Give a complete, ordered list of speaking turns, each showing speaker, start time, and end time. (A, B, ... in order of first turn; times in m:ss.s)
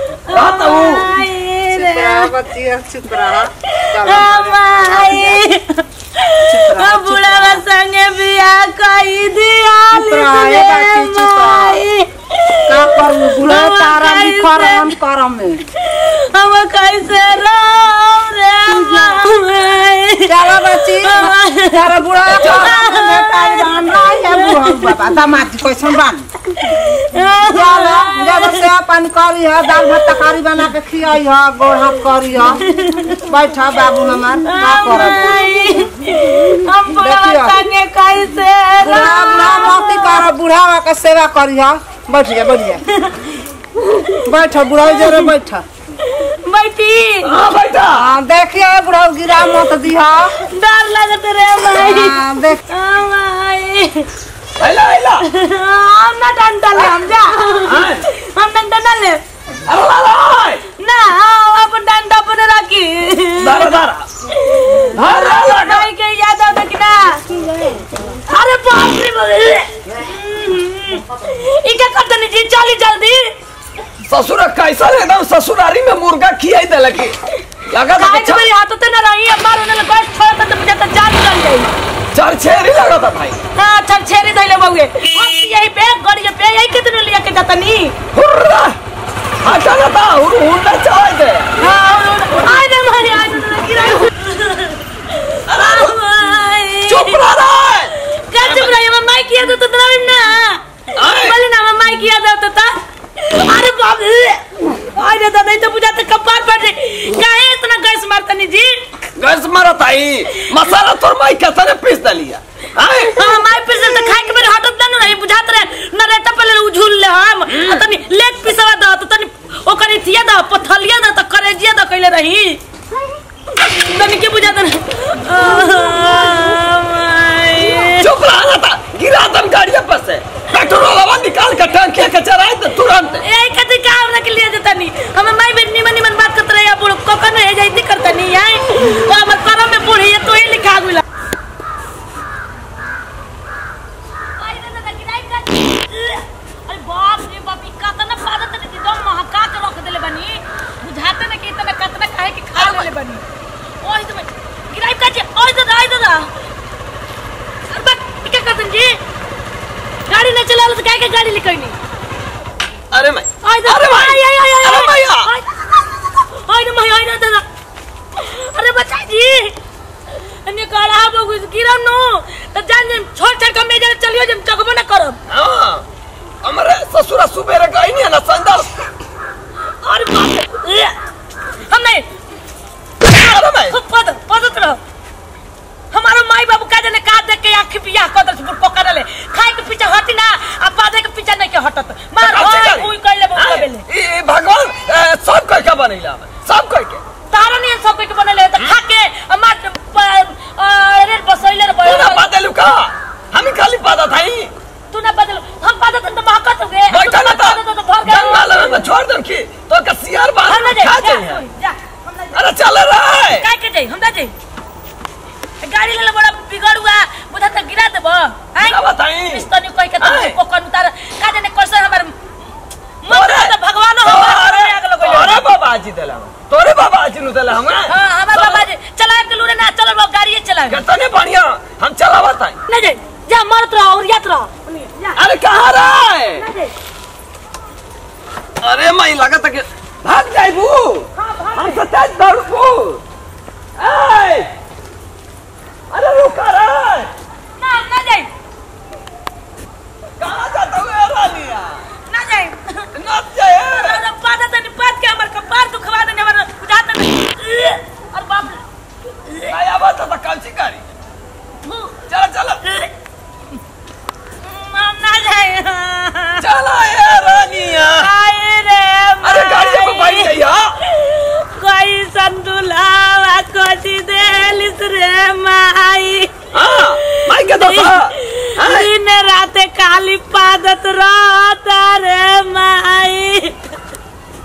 0:00.1-0:02.3 A
0:00.3-0:01.1 B
0:01.7-0:05.4 C
0:03.8-0:14.9 A
0:06.5-0:07.6 C
0:09.9-0:11.8 C
0:12.7-0:15.6 C
0:15.8-0:25.0 A
0:18.8-0:19.1 C
0:20.3-0:26.2 C
0:26.6-0:28.7 A
0:27.5-0:32.6 C
0:29.7-0:30.3 A
0:32.6-0:33.2 A
0:33.3-0:35.5 C
0:34.4-0:40.3 A
0:37.0-0:37.6 C
0:38.8-0:42.8 C
0:42.9-0:43.2 A
0:44.2-0:45.6 C
0:44.8-0:45.3 A
0:46.0-0:47.3 A
0:47.2-0:48.1 B
0:47.9-0:50.3 C
0:50.4-0:54.1 A
0:51.8-0:52.6 C
0:54.6-0:55.2 B
0:55.2-0:59.2 A
0:57.6-0:58.0 B
0:59.7-1:00.6 B
1:00.8-1:03.8 A
1:03.4-1:04.1 B
1:04.4-1:07.2 A
1:04.9-1:05.9 B
1:08.3-1:13.3 A
1:14.1-1:17.2 B
1:17.7-1:18.5 B
1:18.0-1:21.7 A
1:22.1-1:23.4 B
1:23.6-1:27.9 A
1:28.1-1:28.7 B
1:29.4-1:31.5 B
1:31.6-1:37.2 A
1:35.5-1:36.0 B
1:36.9-1:38.8 B
1:38.1-1:48.8 A
1:41.0-1:41.3 B
1:49.2-1:53.4 B
1:53.1-2:02.6 A
1:57.5-1:57.8 B
2:03.6-2:08.1 A
2:08.0-2:13.2 B
2:13.2-2:21.0 A
2:24.4-2:33.2 A
2:32.6-2:32.9 B
2:33.8-2:36.3 A
2:37.7-2:39.0 A
2:40.1-2:41.8 A
2:42.9-2:45.3 B
2:43.4-2:47.4 A
2:48.2-2:49.5 A
2:50.4-2:55.2 A
2:55.3-2:55.8 B
2:56.4-2:58.9 B
2:59.8-3:01.0 A
3:01.7-3:02.0 A
3:03.0-3:03.8 B
3:03.3-3:04.8 A
3:05.9-3:13.8 A
3:12.2-3:17.0 B
3:17.3-3:22.2 A
3:21.8-3:24.5 B
3:24.9-3:28.8 A
3:26.9-3:31.4 B
3:30.5-3:32.3 A
3:32.3-3:33.4 B
3:33.4-3:34.3 A
3:35.6-3:42.1 A
3:38.6-3:39.5 B
3:40.0-3:40.4 B
3:43.0-3:45.4 A
3:43.1-3:48.6 B
3:47.9-3:50.8 A
3:50.7-3:52.6 B
3:52.7-3:55.2 A
3:55.2-3:56.4 B
3:56.4-3:56.7 A
3:58.6-4:03.0 B
4:01.2-4:01.8 A
4:03.8-4:04.5 B
4:05.9-4:07.1 B
4:07.6-4:08.3 A
4:10.2-4:11.8 B
4:12.1-4:12.9 A
4:12.9-4:14.0 B
4:13.8-4:18.6 A
4:19.5-4:20.8 B
4:21.6-4:21.9 A
4:22.1-4:22.6 B
4:24.4-4:26.4 A
4:26.4-4:28.1 B
4:27.9-4:30.3 A
4:29.2-4:30.7 B
4:30.8-4:36.3 A
4:36.5-4:38.9 B
4:37.0-4:43.6 A